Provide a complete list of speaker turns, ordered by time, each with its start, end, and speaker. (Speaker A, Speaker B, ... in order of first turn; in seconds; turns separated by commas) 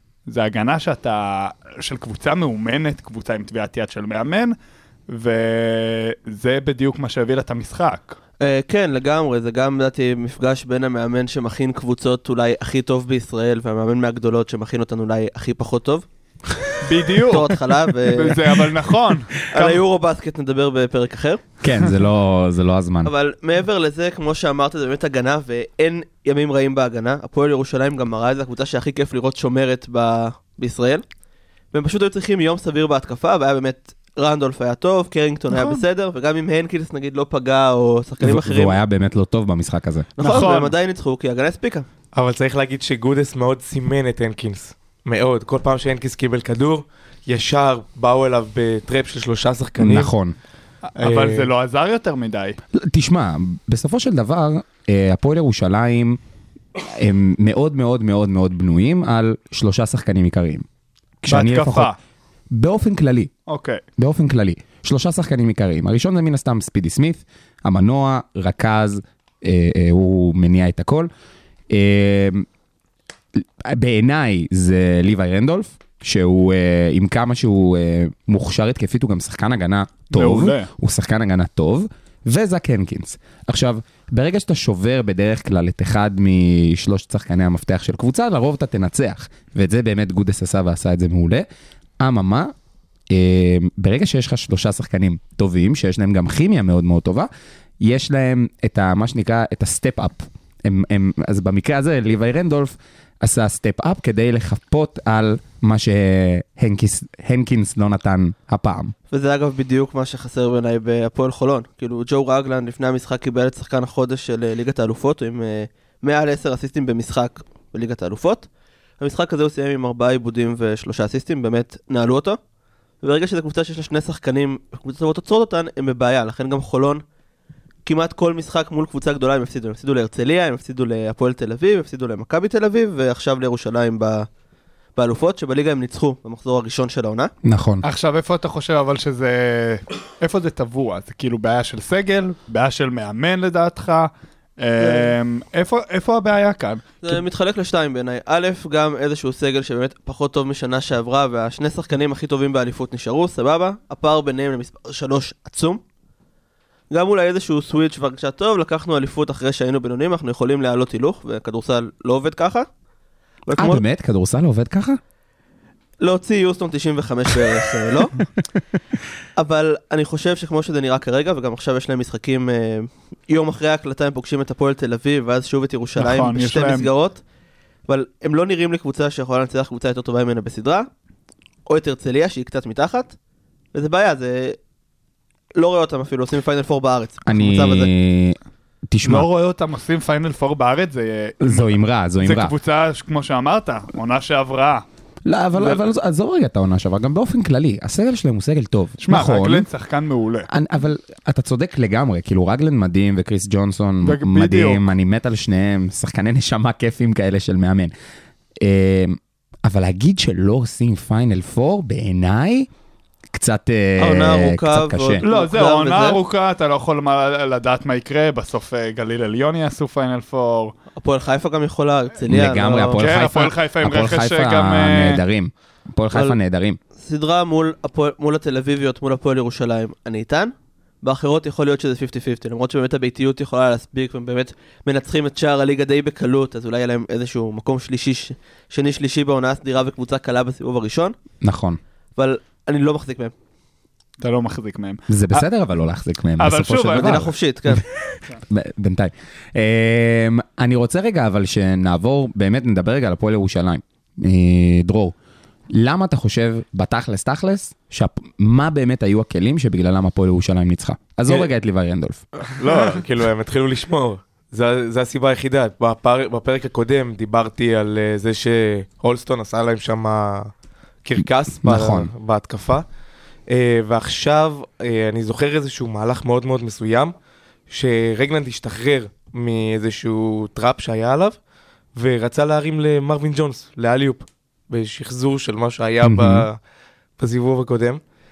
Speaker A: 0.3-4.5, Speaker A: 5.1-8.2, Speaker B: 8.4-16.0, Speaker A: 16.8-19.8, Speaker B: 17.2-18.4, Speaker B: 19.5-21.4, Speaker C: 21.6-23.1, Speaker B: 23.0-31.0, Speaker B: 31.7-38.8, Speaker A: 35.5-35.8, Speaker C: 38.2-40.1, Speaker B: 40.2-41.9, Speaker A: 40.2-40.7, Speaker D: 42.1-50.1, Speaker C: 49.8-50.3, Speaker A: 51.0-52.6, Speaker D: 51.0-51.5, Speaker C: 52.7-56.2, Speaker C: 56.8-60.6, Speaker C: 61.2-61.9, Speaker A: 61.3-62.0, Speaker C: 62.5-63.3, Speaker A: 63.5-63.8, Speaker C: 64.0-71.1, Speaker C: 71.7-72.5, Speaker C: 73.3-91.5, Speaker A: 80.1-80.7, Speaker C: 92.0-92.5, Speaker C: 93.1-97.3, Speaker C: 97.8-108.9, Speaker B: 109.1-118.5, Speaker B: 119.0-122.4, Speaker B: 123.0-127.0, Speaker B: 127.8-134.3, Speaker B: 134.9-137.3, Speaker C: 137.4-137.8, Speaker A: 137.8-147.2, Speaker B: 144.8-145.1, Speaker B: 147.0-155.8, Speaker B: 156.9-162.7, Speaker B: 163.4-163.8, Speaker C: 163.6-165.0, Speaker B: 166.0-168.1, Speaker B: 169.4-177.2, Speaker A: 176.0-176.9, Speaker B: 177.9-180.9, Speaker B: 181.7-183.1, Speaker B: 183.7-184.6, Speaker B: 185.6-187.9, Speaker C: 187.2-188.4, Speaker C: 188.9-189.3, Speaker A: 189.0-194.8, Speaker C: 191.4-192.5, Speaker C: 195.2-199.7, Speaker A: 195.6-195.8, Speaker A: 199.0-200.5, Speaker C: 200.5-207.9, Speaker A: 204.0-204.8, Speaker C: 208.6-212.7, Speaker C: 213.3-215.2, Speaker B: 214.0-216.2, Speaker A: 215.2-220.7, Speaker B: 220.9-223.1, Speaker C: 222.2-226.8, Speaker A: 223.0-225.2, Speaker B: 226.9-241.2, Speaker C: 241.4-241.8, Speaker B: 242.2-243.3, Speaker A: 244.2-245.4, Speaker C: 245.1-247.8, Speaker A: 246.4-247.2, Speaker B: 247.0-247.8, Speaker C: 248.5-255.1, Speaker C: 255.7-262.2, Speaker D: 262.4-270.5, Speaker D: 271.0-272.8, Speaker C: 271.2-272.1, Speaker D: 273.5-277.1, Speaker D: 277.7-281.4, Speaker D: 281.9-286.6, Speaker C: 286.0-286.4, Speaker D: 287.2-288.0